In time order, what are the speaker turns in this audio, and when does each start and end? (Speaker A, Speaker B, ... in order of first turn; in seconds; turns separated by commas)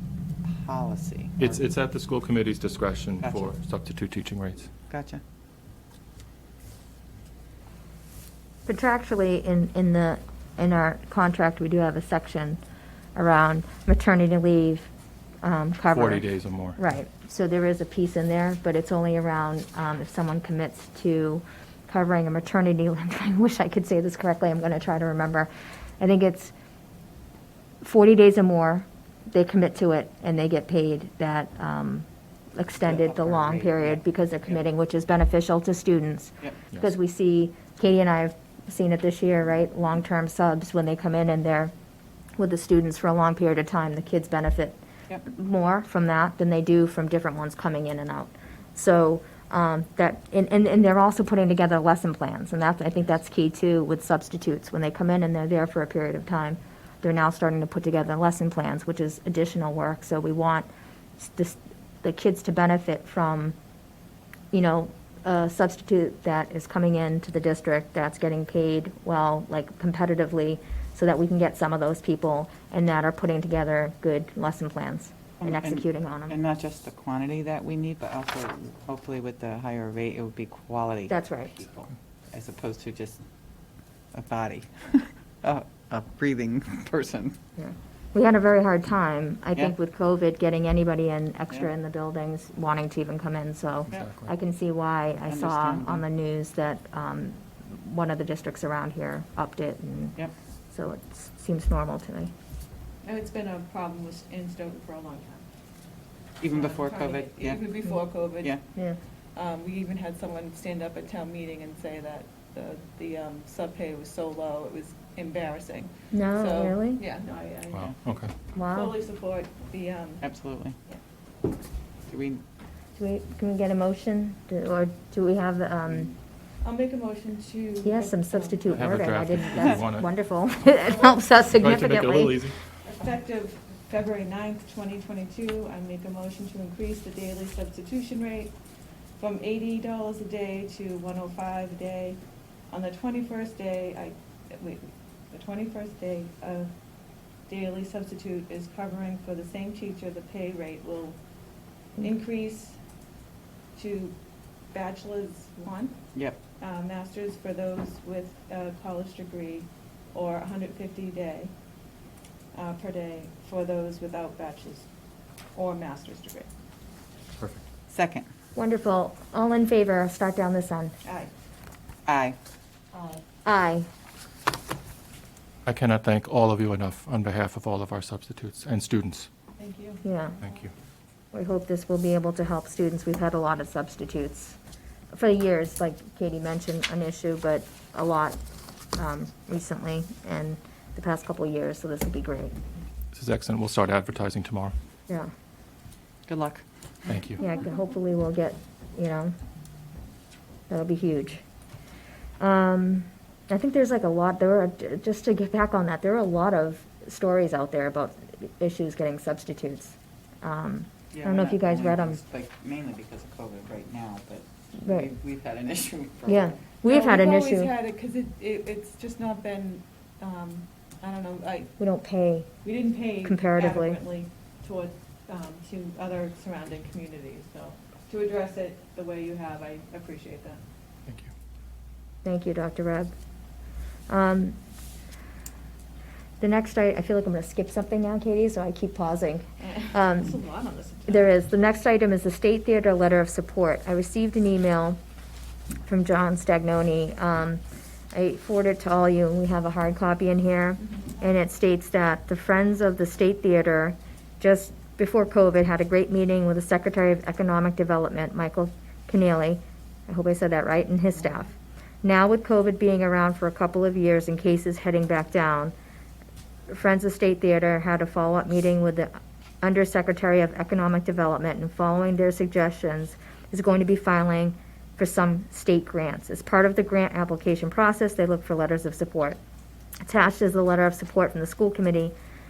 Speaker A: 0.4-1.7, Speaker B: 1.4-4.7, Speaker A: 3.2-3.5, Speaker A: 4.9-5.2, Speaker C: 8.7-12.6, Speaker C: 13.2-14.9, Speaker C: 15.4-16.3, Speaker B: 15.9-16.8, Speaker C: 16.8-25.5, Speaker C: 26.0-26.5, Speaker C: 27.8-41.7, Speaker A: 32.8-34.0, Speaker C: 42.4-63.5, Speaker C: 64.5-76.4, Speaker A: 75.4-83.2, Speaker C: 81.1-81.6, Speaker A: 84.1-87.4, Speaker C: 87.6-100.2, Speaker B: 93.9-94.3, Speaker A: 95.3-96.0, Speaker C: 100.7-102.3, Speaker D: 103.0-105.5, Speaker A: 106.4-107.7, Speaker D: 106.5-108.6, Speaker D: 109.4-117.9, Speaker C: 116.1-117.0, Speaker B: 117.7-118.3, Speaker C: 118.5-119.0, Speaker D: 118.7-120.2, Speaker A: 120.2-120.8, Speaker A: 122.1-122.4, Speaker C: 123.0-126.1, Speaker D: 126.6-128.8, Speaker C: 127.8-132.5, Speaker B: 128.7-130.1, Speaker D: 130.8-131.2, Speaker B: 131.5-132.6, Speaker D: 132.8-138.5, Speaker D: 139.2-146.7, Speaker D: 147.5-151.2, Speaker D: 152.0-152.8, Speaker D: 153.8-154.2, Speaker D: 154.7-155.9, Speaker A: 156.1-156.4, Speaker D: 156.6-161.5, Speaker D: 162.5-164.9, Speaker D: 165.6-166.5, Speaker B: 167.4-167.6, Speaker A: 167.9-168.3, Speaker C: 168.6-170.9, Speaker D: 171.0-171.3, Speaker A: 172.1-172.4, Speaker C: 172.9-173.9, Speaker B: 175.7-179.3, Speaker D: 179.6-180.0, Speaker C: 180.0-180.4, Speaker B: 180.4-180.7, Speaker C: 181.3-184.6, Speaker C: 185.1-188.4, Speaker C: 189.0-192.6, Speaker B: 193.1-194.7, Speaker A: 196.3-196.6, Speaker B: 197.1-197.4, Speaker C: 197.4-199.3, Speaker C: 200.7-201.4, Speaker C: 202.4-212.2, Speaker A: 211.1-216.6, Speaker C: 214.8-215.1, Speaker C: 216.3-217.7, Speaker D: 216.8-221.7, Speaker C: 221.8-222.5, Speaker D: 222.6-230.6, Speaker C: 223.2-224.0, Speaker C: 232.2-233.1, Speaker C: 234.1-234.6, Speaker C: 236.4-240.4, Speaker D: 239.6-241.3, Speaker C: 241.1-245.0, Speaker C: 245.8-247.6, Speaker C: 248.1-265.8, Speaker D: 250.8-251.2, Speaker C: 266.7-279.4, Speaker C: 280.0-282.1